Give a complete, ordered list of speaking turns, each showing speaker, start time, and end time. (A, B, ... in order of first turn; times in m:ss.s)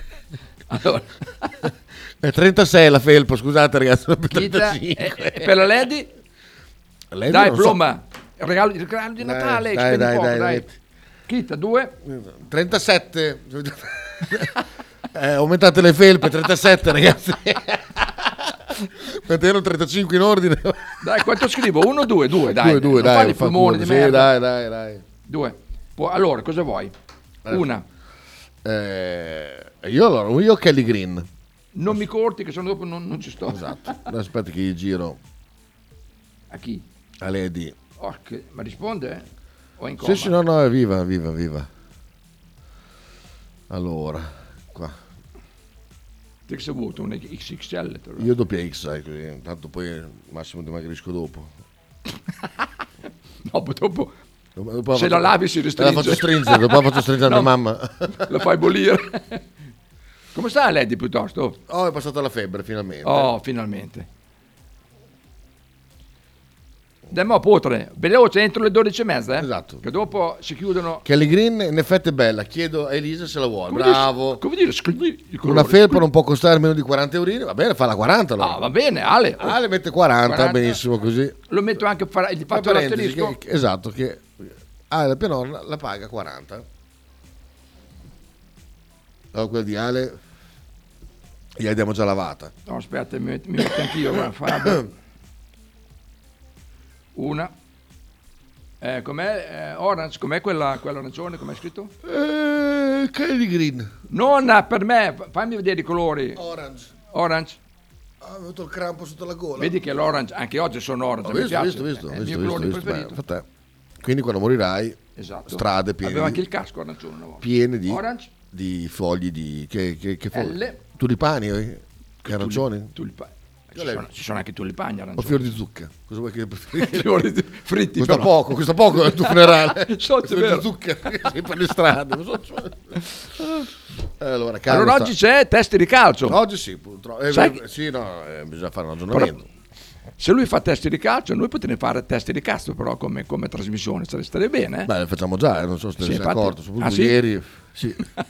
0:00.7-0:01.5 A
0:02.2-0:05.7 B
0:04.3-0:06.1 A
0:07.1-0:07.8 B
0:07.3-0:10.6 A
0:09.2-0:10.7 B
0:11.3-0:11.9 A
0:12.0-0:14.6 B
0:15.1-0:21.0 B
0:21.0-0:24.3 A
0:22.5-0:25.0 B
0:25.2-0:26.9 A
0:27.4-0:27.7 B
0:27.5-0:27.8 A
0:28.6-0:31.3 B
0:31.7-0:34.0 A
0:33.5-0:35.2 B
0:36.5-0:36.8 A
0:37.2-0:37.8 B
0:38.0-0:39.2 A
0:39.8-0:40.4 A
0:40.0-0:41.7 B
0:43.7-0:45.0 B
0:46.5-0:48.3 A
0:48.2-0:51.5 B
0:53.4-0:54.1 A
0:54.6-0:58.4 B
0:54.9-0:57.5 A
0:58.2-0:59.4 A
1:00.3-1:01.6 A
1:01.7-1:03.3 B
1:03.0-1:04.1 A
1:07.1-1:11.0 A
1:09.4-1:09.8 B
1:11.0-1:14.4 B
1:13.7-1:16.1 A
1:15.4-1:18.6 B
1:18.4-1:19.6 A
1:19.4-1:21.4 B
1:20.2-1:20.8 A
1:21.5-1:23.4 A
1:22.5-1:26.6 B
1:29.3-1:30.2 B
1:31.6-1:32.5 B
1:32.7-1:34.9 A
1:37.1-1:37.5 A
1:38.8-1:41.9 A
1:42.0-1:43.9 B
1:44.1-1:46.4 A
1:46.4-1:46.9 B
1:47.1-1:47.6 A
1:48.2-1:49.8 B
1:49.6-1:53.2 A
1:51.2-1:53.4 B
1:54.0-1:56.4 B
1:55.2-1:58.3 A
1:57.4-2:02.9 B
2:00.3-2:00.8 A
2:02.2-2:05.4 A
2:03.8-2:04.1 B
2:05.2-2:07.2 B
2:06.8-2:08.3 A
2:08.0-2:13.0 B
2:09.0-2:10.7 A
2:14.2-2:15.1 B
2:14.7-2:16.4 A
2:16.2-2:19.5 B
2:17.3-2:17.6 A
2:20.2-2:24.9 A
2:24.8-2:28.0 B
2:26.0-2:27.2 A